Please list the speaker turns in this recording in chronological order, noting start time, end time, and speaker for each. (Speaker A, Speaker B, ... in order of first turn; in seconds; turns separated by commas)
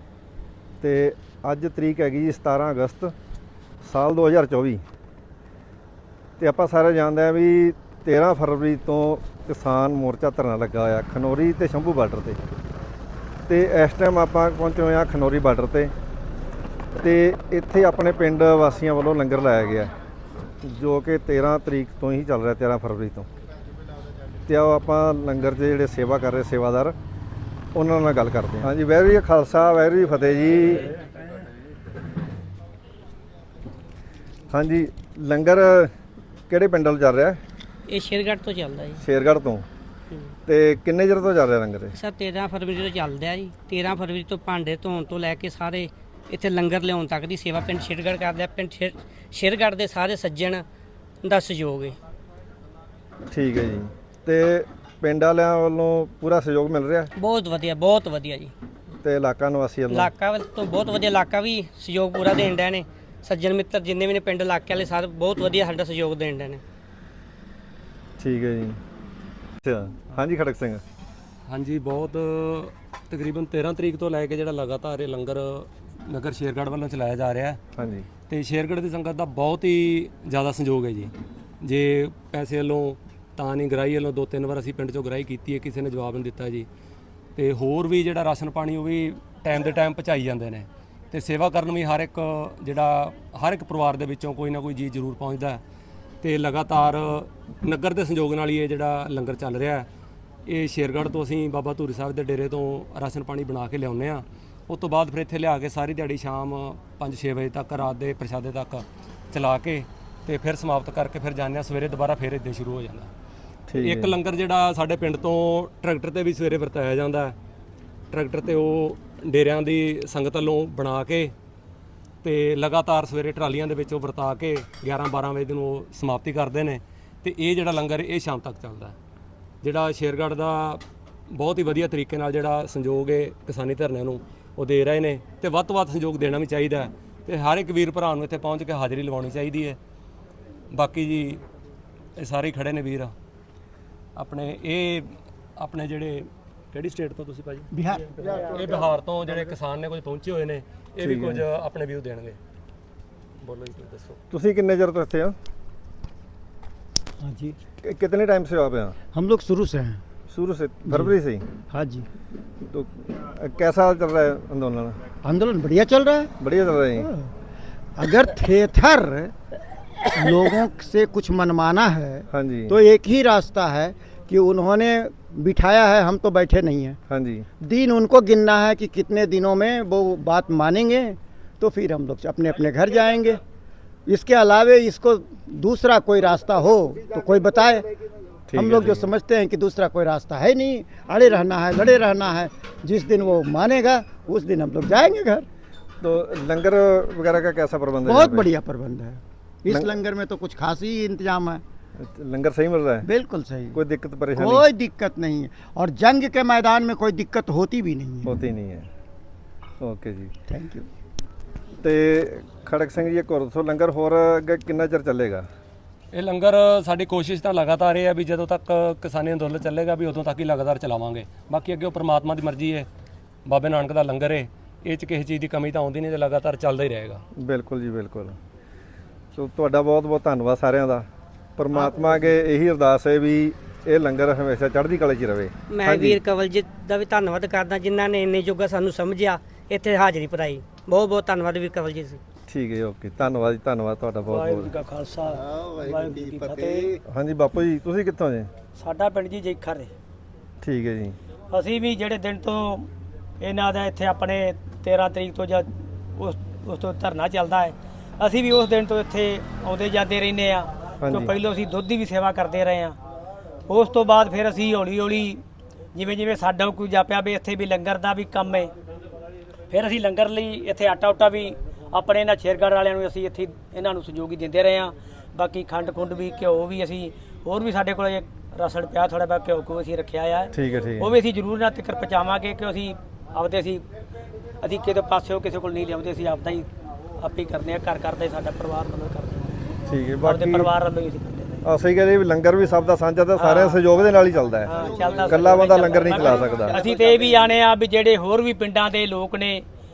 Speaker A: 0.8-3.1, Speaker A: 3.8-4.8, Speaker A: 6.4-12.4, Speaker A: 13.5-15.9, Speaker A: 16.9-19.9, Speaker A: 20.6-23.3, Speaker A: 24.5-26.9, Speaker A: 27.7-30.9, Speaker A: 34.5-35.9, Speaker A: 36.5-37.4, Speaker B: 37.9-39.0, Speaker A: 39.0-39.7, Speaker A: 40.5-41.9, Speaker B: 41.9-50.6, Speaker B: 51.2-52.0, Speaker A: 53.3-57.1, Speaker B: 57.2-58.5, Speaker A: 59.0-60.1, Speaker B: 59.9-66.6, Speaker A: 68.2-68.8, Speaker A: 69.6-70.8, Speaker C: 71.5-77.6, Speaker A: 77.8-78.1, Speaker C: 78.3-86.7, Speaker C: 87.3-95.6, Speaker C: 96.2-99.9, Speaker C: 100.5-113.1, Speaker A: 113.7-114.2, Speaker C: 113.7-117.4, Speaker C: 118.1-121.3, Speaker C: 122.2-128.9, Speaker C: 129.6-139.8, Speaker C: 140.7-141.4, Speaker C: 142.2-143.1, Speaker C: 144.2-147.7, Speaker D: 147.7-148.3, Speaker C: 148.3-152.4, Speaker A: 151.0-151.5, Speaker C: 153.4-154.2, Speaker A: 154.3-155.4, Speaker D: 157.2-157.6, Speaker A: 157.8-159.0, Speaker D: 159.1-160.0, Speaker A: 160.3-161.5, Speaker D: 160.9-161.1, Speaker D: 161.7-162.1, Speaker A: 162.6-165.0, Speaker D: 165.2-166.3, Speaker A: 166.4-167.1, Speaker D: 167.0-167.3, Speaker D: 168.0-169.3, Speaker D: 170.1-177.0, Speaker A: 172.3-172.8, Speaker A: 177.1-177.5, Speaker D: 177.6-183.4, Speaker D: 184.1-187.9, Speaker A: 188.5-189.1, Speaker D: 188.5-195.5, Speaker A: 196.0-198.5, Speaker D: 198.1-201.6, Speaker A: 202.0-203.1, Speaker D: 203.1-203.8, Speaker A: 203.7-204.7, Speaker D: 204.3-208.3, Speaker A: 208.2-208.9, Speaker A: 209.8-210.3, Speaker D: 210.5-210.9, Speaker A: 211.8-215.5, Speaker C: 216.1-222.9, Speaker C: 223.4-227.2, Speaker A: 227.4-228.4, Speaker A: 229.3-231.1, Speaker A: 231.6-236.2, Speaker B: 235.7-242.2, Speaker A: 242.5-244.7, Speaker E: 244.3-247.0, Speaker A: 247.1-248.5, Speaker E: 248.8-249.9, Speaker A: 250.6-251.2, Speaker E: 251.5-252.9, Speaker E: 253.4-263.0, Speaker A: 261.0-261.3, Speaker E: 263.7-265.4, Speaker E: 265.9-268.7, Speaker E: 269.7-283.8, Speaker A: 280.5-281.1, Speaker E: 284.6-286.7, Speaker E: 287.2-289.5, Speaker A: 289.9-290.7, Speaker E: 290.2-291.6, Speaker A: 291.6-296.8, Speaker E: 293.4-293.8, Speaker E: 294.7-299.6, Speaker D: 295.1-296.6